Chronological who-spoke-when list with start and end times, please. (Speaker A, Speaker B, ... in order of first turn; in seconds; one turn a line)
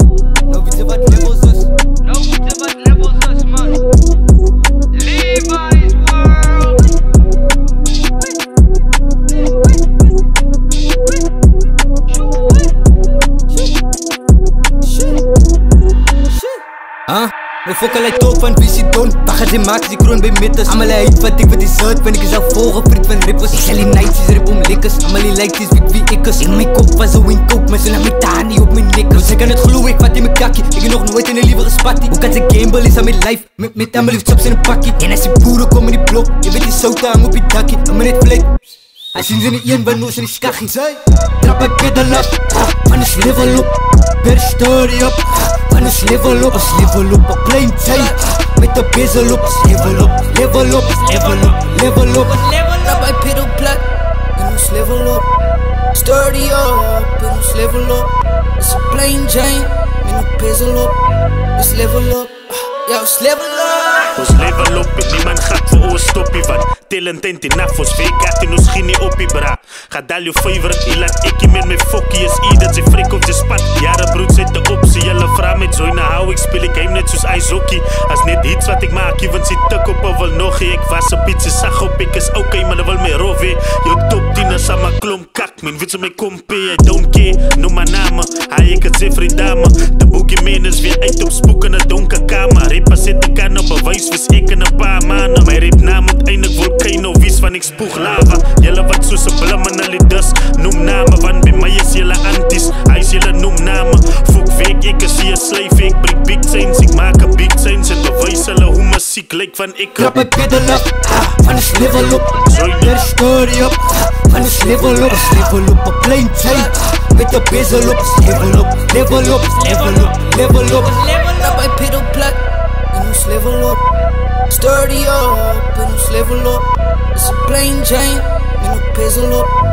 Speaker A: 0.5-1.7
Speaker B: 2.1-3.8
Speaker B: 5.0-6.8
Speaker A: 17.1-38.6
Speaker A: 39.1-52.8
Speaker B: 52.6-55.2
Speaker B: 55.9-60.9
Speaker B: 61.5-64.3
Speaker C: 64.1-110.2
Speaker A: 110.0-121.2
Speaker C: 112.4-113.0
Speaker B: 121.2-122.4
Speaker B: 122.9-123.8
Speaker B: 124.5-129.5